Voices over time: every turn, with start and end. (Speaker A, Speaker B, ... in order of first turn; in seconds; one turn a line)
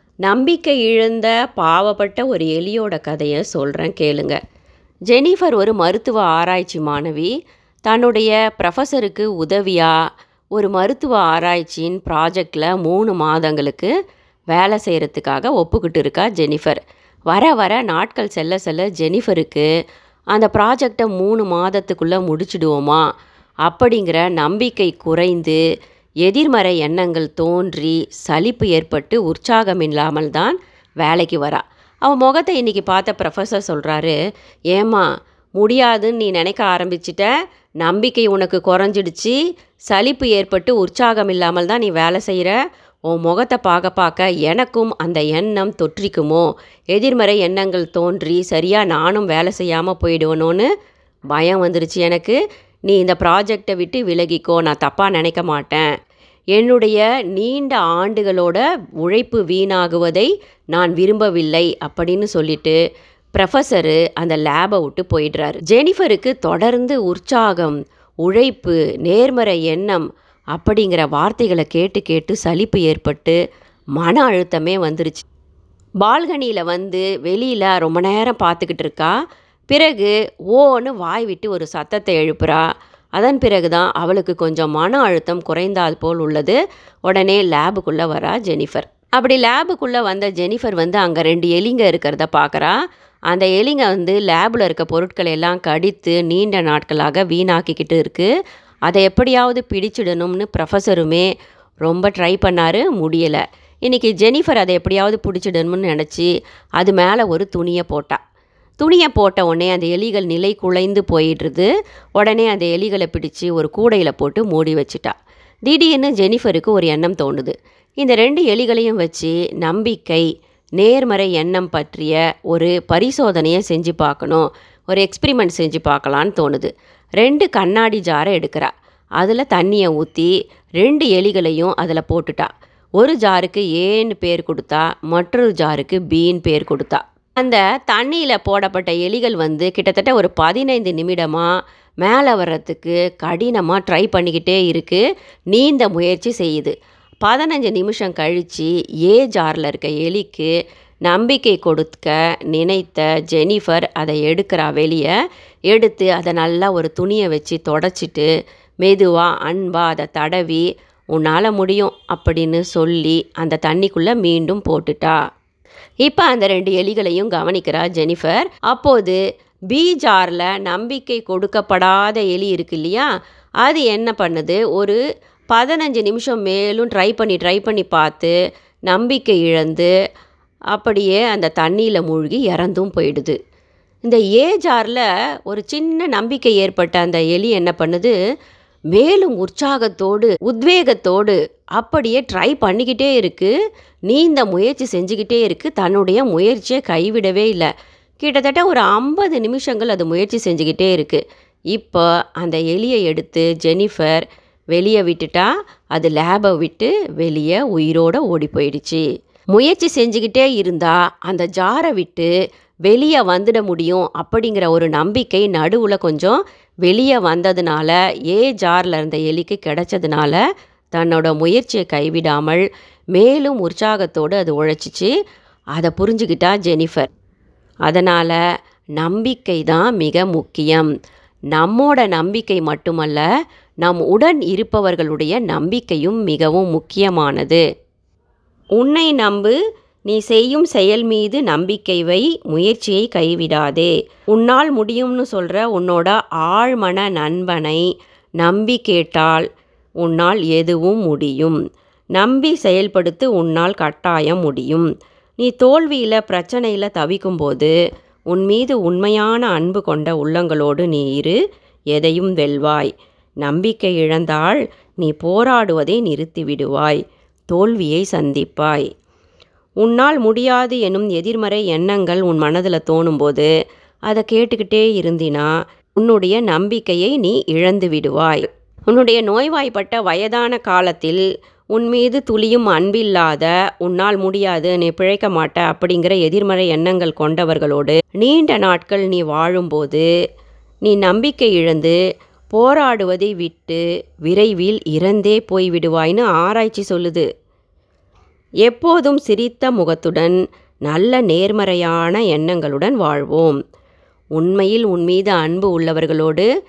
Speaker A: 0.2-4.4
Speaker A: 5.1-7.3
Speaker A: 7.9-9.9
Speaker A: 10.6-13.9
Speaker A: 14.5-19.7
Speaker A: 20.3-23.0
Speaker A: 23.6-25.6
Speaker A: 26.2-34.1
Speaker A: 34.7-35.0
Speaker A: 35.6-39.4
Speaker A: 39.9-42.6
Speaker A: 43.1-50.7
Speaker A: 51.3-55.9
Speaker A: 56.5-62.8
Speaker A: 63.4-73.4
Speaker A: 74.0-75.2
Speaker A: 76.0-79.1
Speaker A: 79.7-82.6
Speaker A: 83.2-92.8
Speaker A: 93.3-98.3
Speaker A: 98.9-101.3
Speaker A: 101.8-108.2
Speaker A: 108.8-115.1
Speaker A: 115.7-120.2
Speaker A: 120.8-126.7
Speaker A: 127.2-141.5
Speaker A: 142.0-150.5
Speaker A: 151.0-155.1
Speaker A: 155.7-158.3
Speaker A: 158.8-165.2
Speaker A: 166.0-169.2
Speaker A: 169.7-173.1
Speaker A: 173.6-175.0
Speaker A: 175.5-178.3
Speaker A: 178.9-179.9
Speaker A: 180.7-183.4
Speaker A: 184.1-188.1
Speaker A: 188.9-193.5
Speaker A: 194.1-197.7
Speaker A: 198.2-201.2
Speaker A: 201.7-212.3
Speaker A: 212.9-220.4
Speaker A: 220.9-225.1
Speaker A: 225.8-227.1
Speaker A: 227.8-228.4
Speaker A: 229.0-230.9
Speaker A: 231.5-233.2
Speaker A: 233.8-237.6
Speaker A: 238.8-239.6
Speaker A: 240.1-247.8
Speaker A: 248.4-249.5
Speaker A: 250.0-251.6
Speaker A: 252.2-254.9
Speaker A: 255.4-257.7
Speaker A: 258.3-261.4
Speaker A: 261.9-262.9
Speaker A: 263.4-268.9
Speaker A: 269.8-273.5
Speaker A: 274.1-290.1
Speaker A: 290.8-292.0
Speaker A: 292.5-297.3
Speaker A: 298.6-303.6
Speaker A: 304.4-306.5